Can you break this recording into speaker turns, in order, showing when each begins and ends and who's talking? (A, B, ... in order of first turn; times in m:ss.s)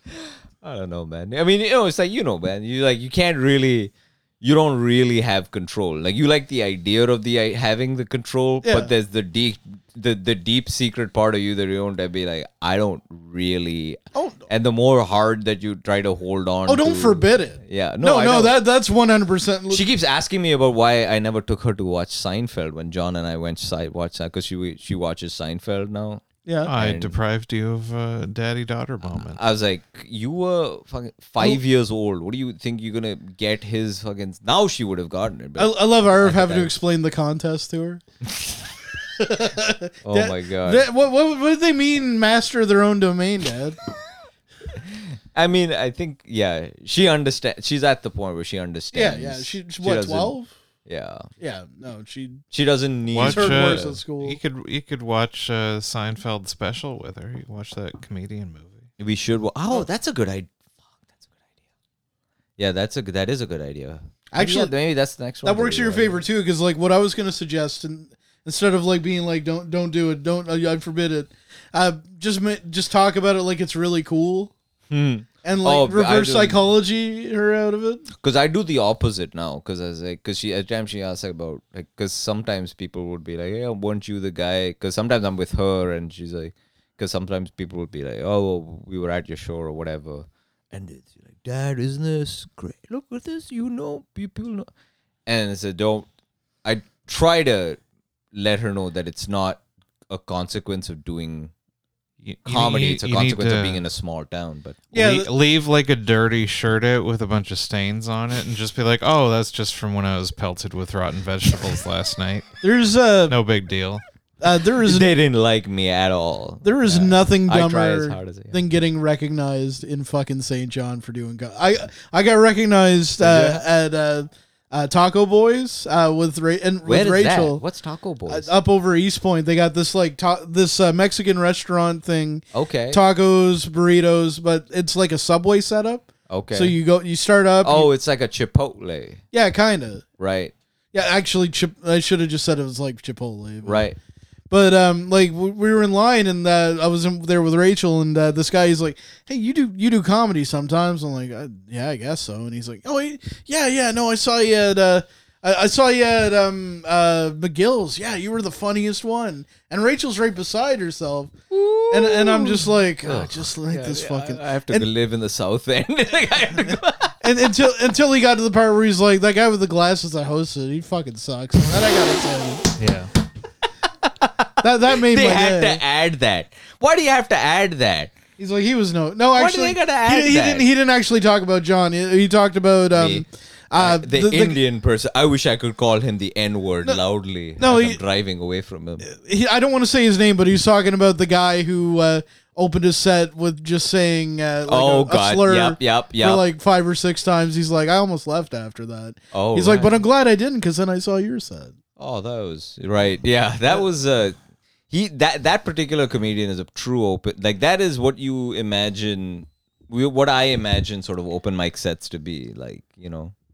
0:00.6-0:18.6 A
0:08.6-0:08.9 B
0:14.1-0:14.4 B
0:16.7-0:19.8 B
0:19.7-0:27.2 A
0:26.4-0:26.7 B
0:26.6-0:29.4 C
0:29.1-0:36.7 A
0:35.6-0:38.0 B
0:39.2-0:43.8 B
0:40.0-0:40.8 A
0:44.8-0:51.3 A
0:48.9-0:50.5 B
0:51.4-0:52.4 B
0:52.5-0:54.0 A
0:53.1-0:58.9 C
0:53.2-0:54.4 B
0:59.0-1:00.5 A
1:02.6-1:06.2 A
1:04.3-1:04.7 B
1:05.4-1:14.5 B
1:14.9-1:16.6 A
1:15.4-1:18.0 B
1:18.2-1:34.7 A
1:35.2-1:36.1 A
1:36.6-1:37.8 A
1:38.3-1:41.5 A
1:42.2-1:43.8 C
1:42.4-1:44.8 A
1:44.9-1:52.5 C
1:44.9-1:45.3 B
1:52.6-1:53.4 B
1:53.3-1:54.0 C
1:54.4-1:55.1 B
1:54.8-1:58.6 A
1:56.6-2:07.6 B
2:03.2-2:03.6 A
2:06.8-2:08.5 A
2:08.3-2:17.9 B
2:12.5-2:13.0 A
2:16.3-2:16.8 A
2:17.6-2:19.2 A
2:19.3-2:20.0 B
2:20.2-2:20.5 A
2:20.9-2:23.9 B
2:23.6-2:24.0 A
2:24.5-2:41.3 B
2:41.5-2:47.1 A
2:41.9-2:44.9 B
2:47.2-2:52.7 B
2:52.8-2:53.1 C
2:54.6-2:55.8 B
2:54.9-2:58.1 A
2:58.4-3:04.6 B
2:59.3-3:00.7 A
3:02.9-3:03.2 A
3:03.8-3:09.1 A
3:07.6-3:08.0 B
3:09.0-3:21.7 B
3:14.7-3:16.4 A
3:19.3-3:20.0 A
3:22.0-3:24.4 A
3:24.9-3:33.3 A